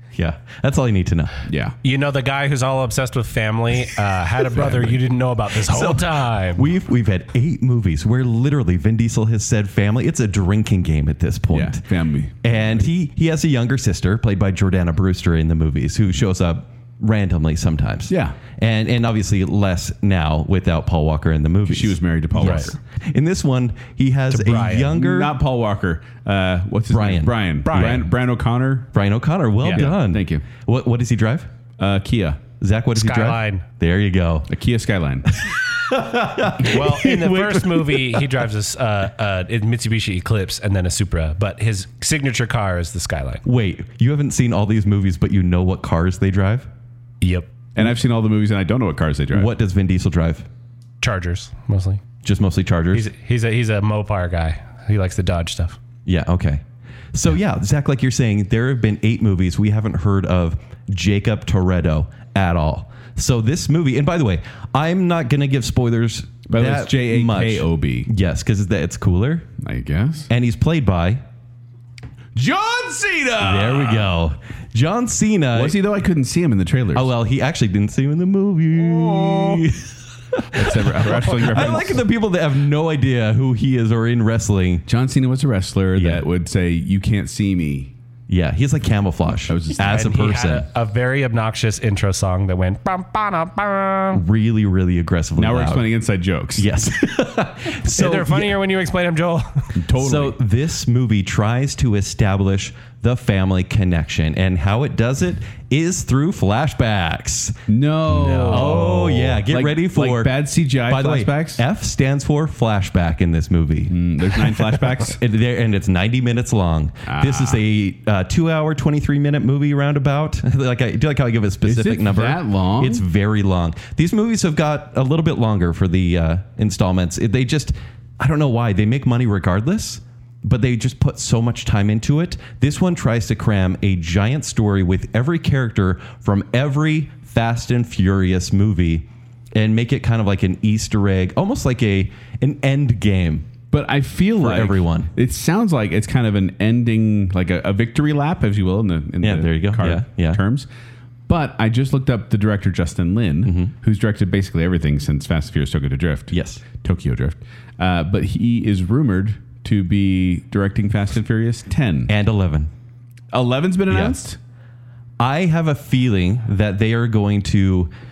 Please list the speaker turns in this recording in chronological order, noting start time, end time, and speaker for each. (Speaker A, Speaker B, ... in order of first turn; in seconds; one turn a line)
Speaker A: 0.1-1.4
Speaker B: 1.4-1.8
Speaker C: 1.8-6.7
Speaker A: 4.6-4.9
Speaker A: 5.5-11.8
Speaker B: 11.5-12.8
Speaker A: 12.4-25.3
Speaker B: 18.1-18.4
Speaker B: 21.7-22.7
Speaker C: 22.4-22.7
Speaker C: 24.3-25.0
Speaker B: 24.9-28.9
Speaker A: 26.9-28.1
Speaker C: 27.7-28.0
Speaker A: 28.9-31.5
Speaker B: 29.6-30.4
Speaker B: 31.8-32.4
Speaker A: 32.6-34.5
Speaker C: 32.9-33.6
Speaker B: 34.5-35.3
Speaker A: 35.3-38.5
Speaker C: 36.6-43.4
Speaker A: 43.4-46.7
Speaker C: 47.2-47.5
Speaker B: 47.7-49.5
Speaker A: 49.3-50.5
Speaker C: 51.0-52.0
Speaker A: 52.2-53.1
Speaker C: 52.9-55.8
Speaker A: 56.0-69.5
Speaker B: 66.5-68.1
Speaker B: 69.6-70.3
Speaker A: 70.3-71.2
Speaker B: 72.3-74.1
Speaker A: 73.4-75.8
Speaker B: 75.5-77.1
Speaker A: 76.9-84.8
Speaker B: 79.0-79.6
Speaker B: 80.5-82.0
Speaker B: 84.9-87.9
Speaker A: 86.0-86.2
Speaker A: 88.3-90.7
Speaker B: 89.5-90.0
Speaker C: 89.8-94.2
Speaker A: 94.1-95.9
Speaker B: 95.4-96.7
Speaker A: 96.5-98.5
Speaker C: 97.8-99.7
Speaker B: 99.8-100.4
Speaker A: 100.0-143.5
Speaker B: 107.7-111.6
Speaker B: 113.9-115.2
Speaker B: 117.0-117.6
Speaker B: 121.6-123.0
Speaker B: 143.7-150.7
Speaker A: 144.4-145.1
Speaker A: 149.2-150.4
Speaker B: 151.3-162.1
Speaker A: 153.4-153.7
Speaker A: 156.3-156.6
Speaker A: 162.1-162.7
Speaker B: 163.3-164.4
Speaker A: 163.9-164.2
Speaker A: 165.2-167.9